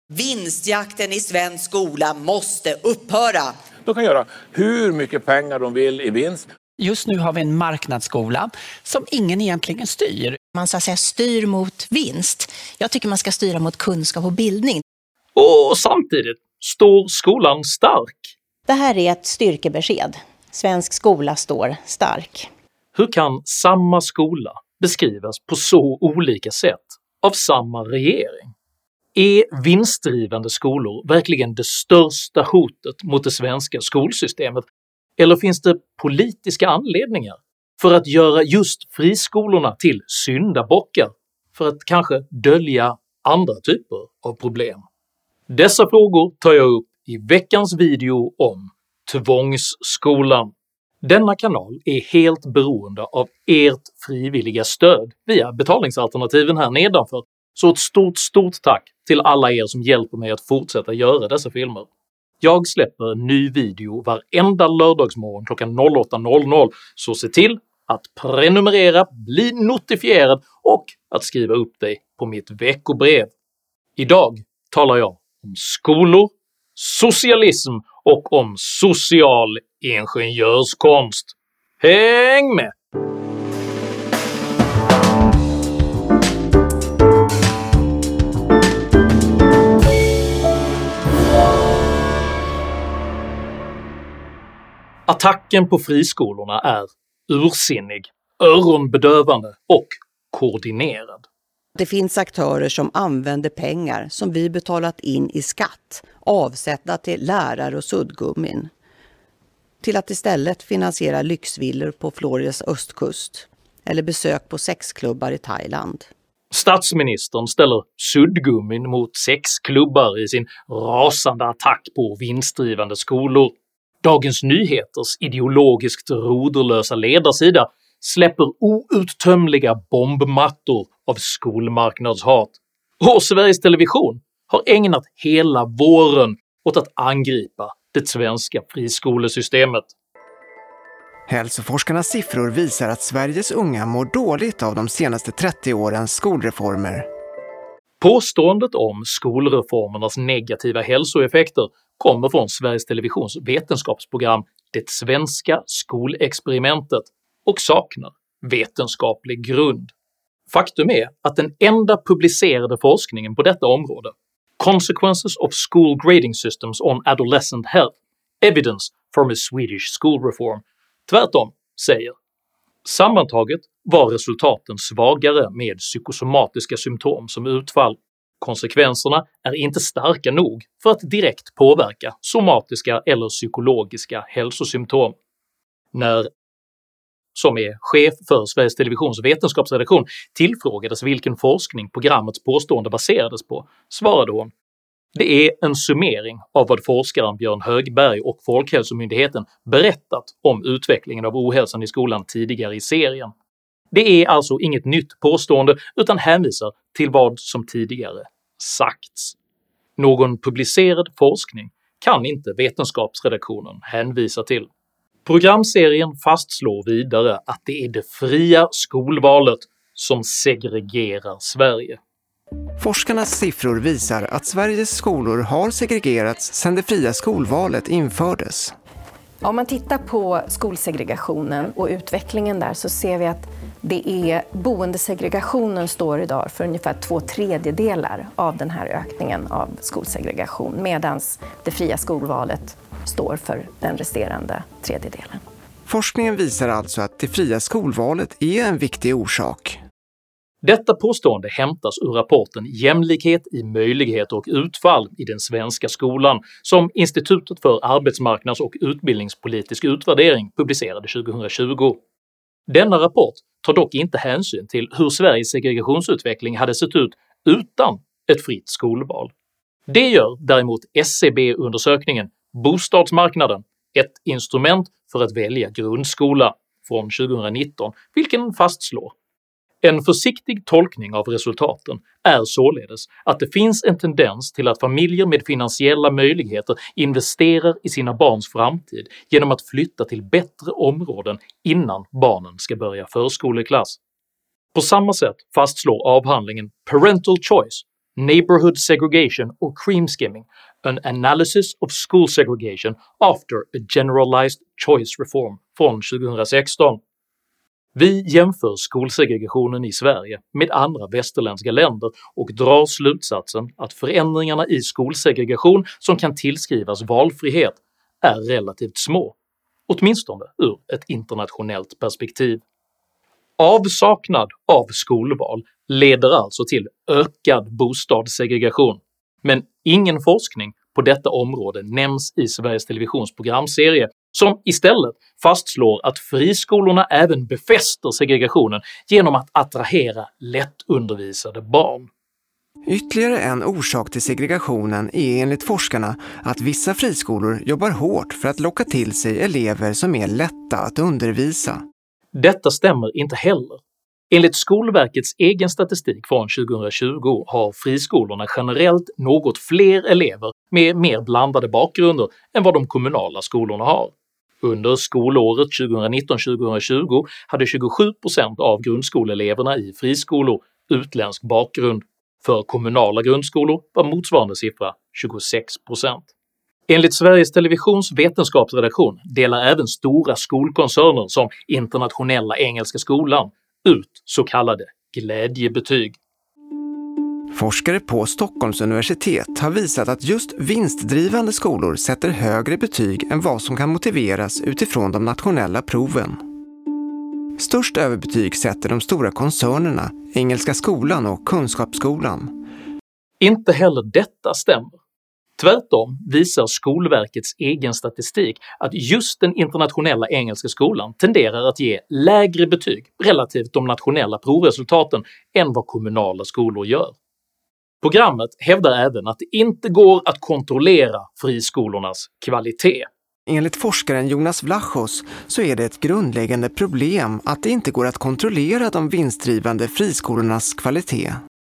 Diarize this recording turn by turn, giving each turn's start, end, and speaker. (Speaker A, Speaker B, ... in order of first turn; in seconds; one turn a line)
Speaker A: 0.1-3.5
Speaker B: 3.9-6.4
Speaker C: 6.8-10.3
Speaker D: 10.6-14.8
Speaker E: 15.3-18.3
Speaker D: 18.7-22.5
Speaker E: 22.9-28.5
Speaker E: 29.1-34.7
Speaker E: 35.2-44.8
Speaker E: 45.5-50.5
Speaker E: 51.0-61.9
Speaker E: 62.4-73.3
Speaker E: 74.0-82.7
Speaker E: 95.1-101.2
Speaker F: 101.8-108.7
Speaker F: 109.8-116.1
Speaker E: 116.5-139.9
Speaker G: 141.3-147.1
Speaker E: 148.0-159.9
Speaker E: 160.5-172.1
Speaker E: 172.8-185.2
Speaker E: 185.9-186.3
Speaker E: 187.3-194.5
Speaker E: 195.1-203.3
Speaker E: 203.9-209.3
Speaker E: 210.0-214.7
Speaker E: 215.2-222.0
Speaker G: 222.8-228.8
Speaker H: 229.4-245.4
Speaker G: 245.9-249.8
Speaker E: 250.6-262.0
Speaker E: 262.7-269.3
Speaker E: 269.9-279.1
Speaker E: 279.8-294.0
Speaker E: 294.7-307.0
Speaker E: 307.9-319.3
Speaker E: 319.9-322.6
Speaker E: 323.6-342.1
Speaker G: 342.9-351.8
Speaker E: 352.3-376.3
Speaker E: 376.9-386.1
Speaker G: 387.5-396.4
Speaker G: 397.6-402.5
Speaker E: 403.4-405.0
Speaker E: 405.6-417.1
Speaker E: 418.0-423.1
Speaker G: 423.5-431.4